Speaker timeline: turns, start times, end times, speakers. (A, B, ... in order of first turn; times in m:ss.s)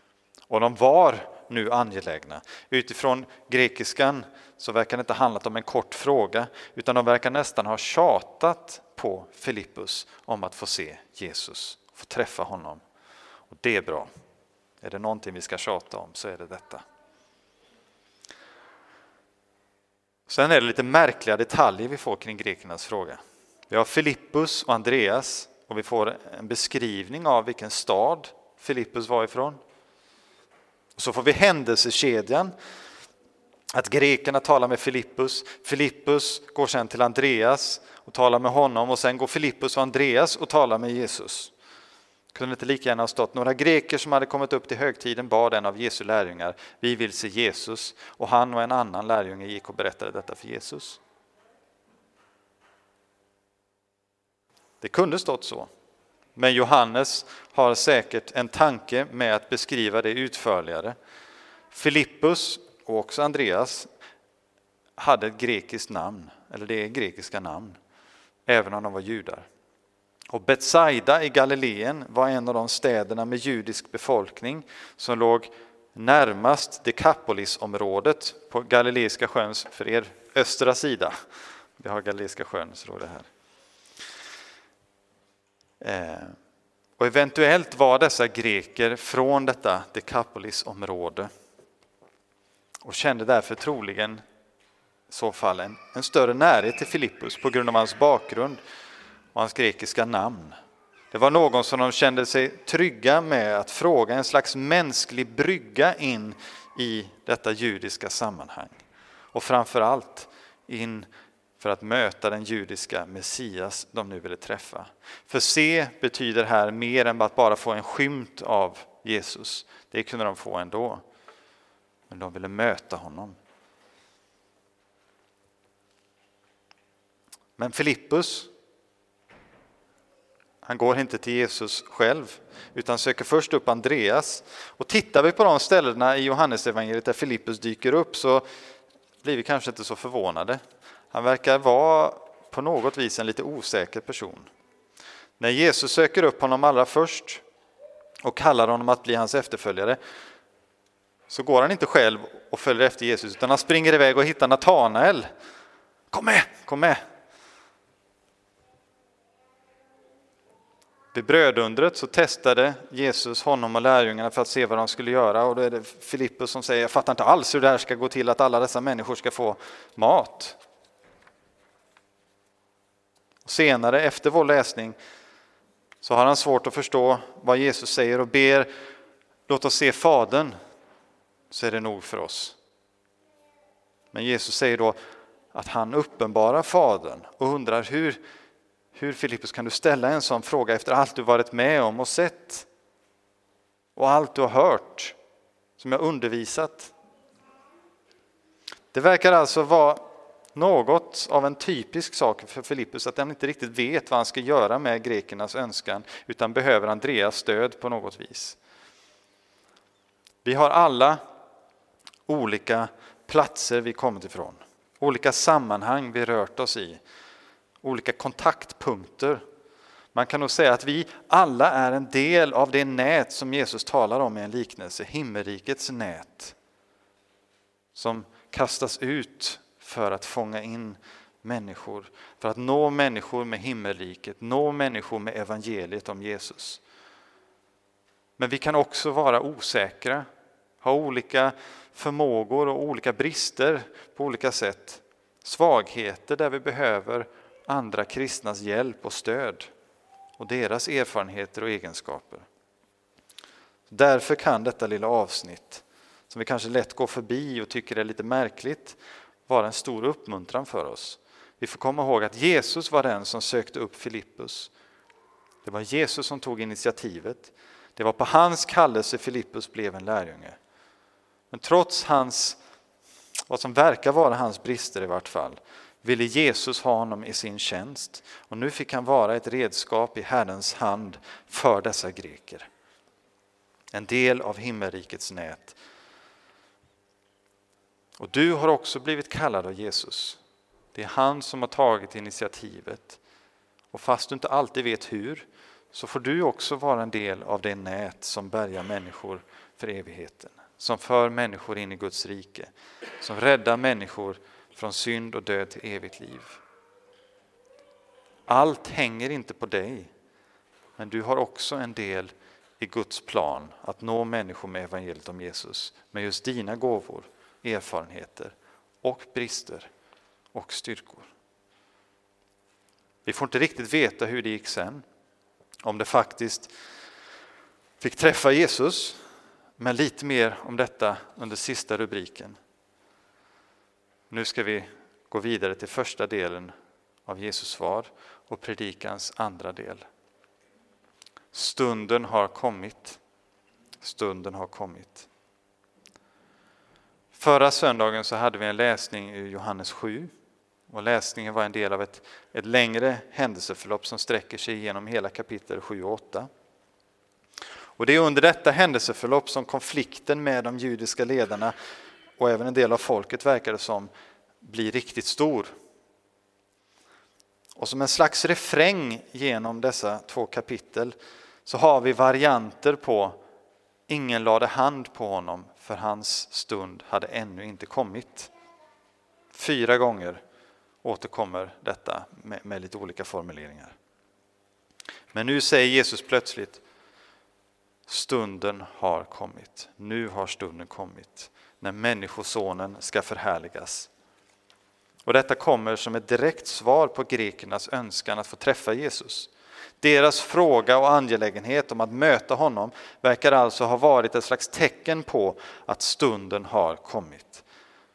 0:00.5-0:12.8 A
0:13.5-0:14.1 A
0:14.8-0:16.8 A
0:20.3-0:29.6 A
0:31.0-0:32.5 A
0:33.7-0:41.5 A
0:42.3-0:51.0 A
0:54.8-0:55.7 A
0:56.4-1:01.0 A
1:01.7-1:03.9 A
1:05.0-1:07.8 A
1:08.4-1:09.5 A
1:10.3-1:21.2 A
1:21.8-1:23.3 A
1:25.8-1:26.4 A
1:27.0-1:31.3 A
1:32.8-1:34.2 A
1:35.1-1:38.6 A
1:39.3-1:40.6 A
1:41.1-1:48.8 A
1:49.3-1:51.1 A
1:51.6-2:01.0 A
2:02.1-2:03.4 A
2:07.6-2:08.5 A
2:10.6-2:18.4 A
2:19.2-2:20.6 A
2:21.1-2:24.5 A
2:25.4-2:27.4 A
2:28.2-2:30.0 A
2:31.3-2:35.3 A
2:36.1-2:37.0 A
2:41.1-2:50.6 A
2:53.4-2:55.0 A
2:56.0-2:58.7 A
2:59.5-3:00.6 A
3:01.5-3:02.6 A
3:04.1-3:05.0 A
3:05.5-3:08.2 A
3:08.9-3:12.7 A
3:14.0-3:15.2 A
3:15.8-3:16.9 A
3:18.9-3:20.0 A
3:20.6-3:28.6 A
3:30.4-3:31.2 A
3:32.3-3:37.0 A
3:37.8-3:39.4 A
3:40.1-3:46.6 A
3:47.9-3:56.8 A
3:58.4-4:00.3 A
4:00.8-4:09.7 A
4:10.4-4:12.4 A
4:13.9-4:24.7 A
4:25.6-4:30.6 A
4:31.5-4:32.6 A
4:33.5-4:42.7 A
4:43.9-4:45.8 A
4:48.2-4:50.4 A
4:50.9-4:53.2 A
4:53.9-5:06.6 A
5:08.5-5:10.1 A
5:11.0-5:19.9 A
5:20.5-5:21.3 A
5:23.2-5:25.0 A
5:25.8-5:26.7 A
5:28.0-5:29.2 A
5:29.8-5:32.6 A
5:34.3-5:36.7 A
5:37.3-5:40.1 A
5:41.5-5:43.2 A
5:44.0-5:45.3 A
5:47.3-5:50.3 A
5:50.9-5:56.5 A
5:58.0-6:01.8 A
6:02.4-6:04.1 A
6:04.6-6:05.7 A
6:07.8-6:13.4 A
6:14.1-6:18.5 A
6:19.5-6:20.4 A
6:21.0-6:23.9 A
6:25.3-6:26.8 A
6:28.1-6:34.1 A
6:35.2-6:39.5 A
6:40.0-6:47.6 A